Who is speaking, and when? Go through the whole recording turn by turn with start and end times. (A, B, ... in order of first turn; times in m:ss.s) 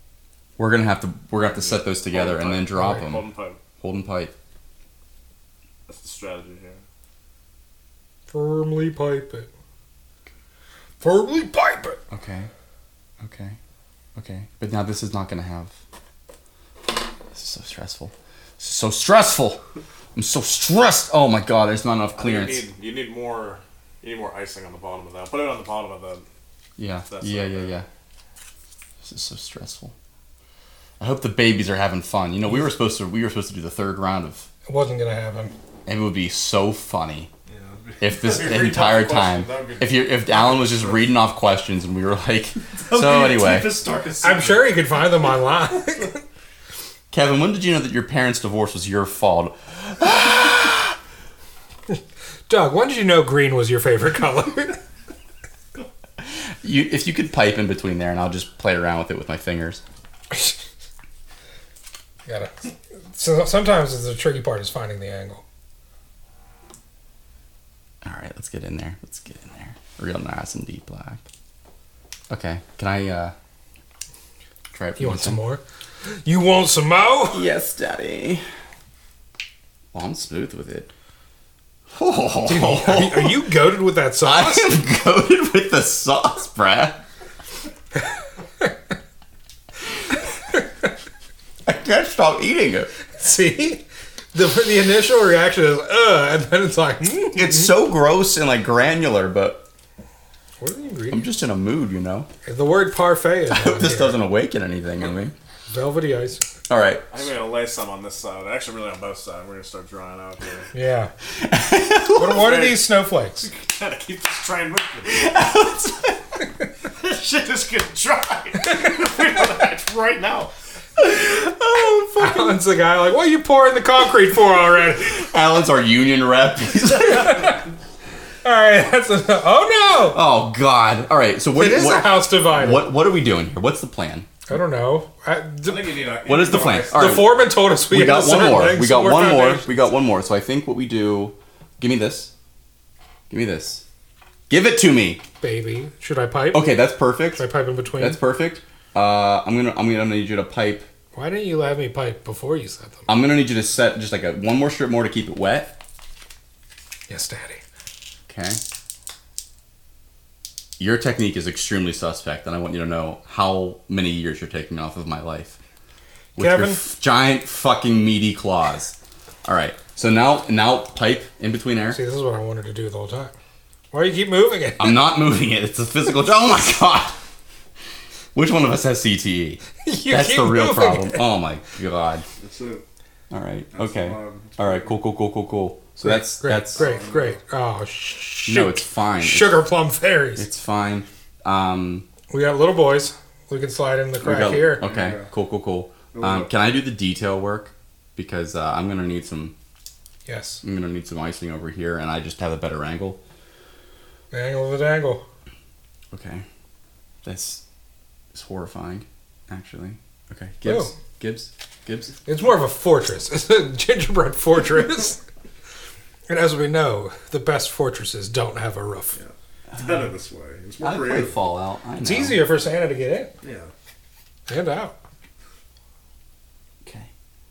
0:00.6-0:03.3 A
0:01.4-0:03.6 B
0:03.8-0:04.3 A
0:05.9-0:06.8 B
0:08.3-0:09.5 C
0:11.0-0:12.0 C
0:12.1-0:12.5 A
0:13.2-0:13.6 A
0:14.2-0:15.7 A
0:17.3-0:19.6 A
0:20.2-0:22.7 A
0:22.2-0:26.2 B
0:26.8-0:27.9 A
0:27.1-0:27.8 B
0:29.0-0:29.9 A
0:31.0-0:34.5 A
0:34.7-0:35.5 C
0:35.9-0:37.3 A
0:37.5-0:41.2 B
0:38.0-0:43.8 A
0:42.8-0:44.8 B
0:44.2-0:46.2 C
0:47.1-0:51.0 A
0:51.9-0:54.8 C
0:56.2-0:59.8 A
1:02.3-1:05.4 C
1:08.0-1:11.2 A
1:12.3-1:13.3 A
1:14.7-1:15.4 A
1:15.0-1:17.4 C
1:17.3-1:18.4 A
1:19.9-1:20.9 A
1:21.9-1:23.4 A
1:22.5-1:24.8 C
1:24.2-1:27.0 A
1:31.6-1:32.9 A
1:33.2-1:37.7 C
1:37.3-1:39.6 A
1:40.6-1:41.3 C
1:41.1-1:42.3 A
1:42.4-1:44.2 C
1:43.5-1:45.3 A
1:45.7-1:46.4 C
1:46.7-1:47.1 A
1:47.1-1:50.7 B
1:50.7-1:51.1 C
1:51.3-1:52.7 A
1:52.2-1:53.5 C
1:52.4-1:52.8 B
1:53.4-1:55.4 B
1:55.1-1:56.4 A
1:56.9-2:00.5 B
2:01.0-2:02.6 A
2:02.2-2:05.2 C
2:05.0-2:07.6 A
2:08.4-2:10.2 C
2:10.1-2:14.3 A
2:11.6-2:12.9 C
2:14.5-2:16.0 C
2:15.6-2:17.4 B
2:16.3-2:22.3 A
2:16.7-2:19.7 C
2:23.3-2:23.8 A
2:24.5-2:25.2 A
2:25.4-2:26.7 C
2:26.5-2:30.9 A
2:27.4-2:28.2 C
2:31.1-2:33.1 C
2:33.1-2:35.8 A
2:37.1-2:37.6 C
2:38.3-2:38.6 A
2:40.8-2:45.6 A
2:46.4-2:46.8 C
2:46.4-2:52.0 A
2:51.9-2:53.3 C
2:53.9-2:55.0 C
2:54.8-2:57.2 A
2:58.3-3:02.3 A
2:59.8-3:01.2 C
3:02.4-3:02.8 B
3:03.3-3:06.9 A
3:03.7-3:05.0 B
3:06.0-3:10.5 C
3:06.7-3:07.4 B
3:08.5-3:09.6 A
3:10.4-3:12.1 A
3:12.3-3:14.9 C
3:14.2-3:19.6 A
3:14.8-3:15.3 B
3:16.1-3:16.5 B
3:20.3-3:20.6 C
3:20.6-3:23.2 A
3:24.3-3:25.2 C
3:26.1-3:26.4 A
3:27.2-3:27.6 A
3:28.3-3:32.2 A
3:30.7-3:30.9 C
3:32.3-3:35.2 C
3:36.3-3:39.2 C
3:39.2-3:41.4 B
3:40.8-3:42.4 A
3:42.0-3:43.3 C
3:43.4-3:43.7 B
3:44.5-3:45.0 C
3:46.8-3:47.1 A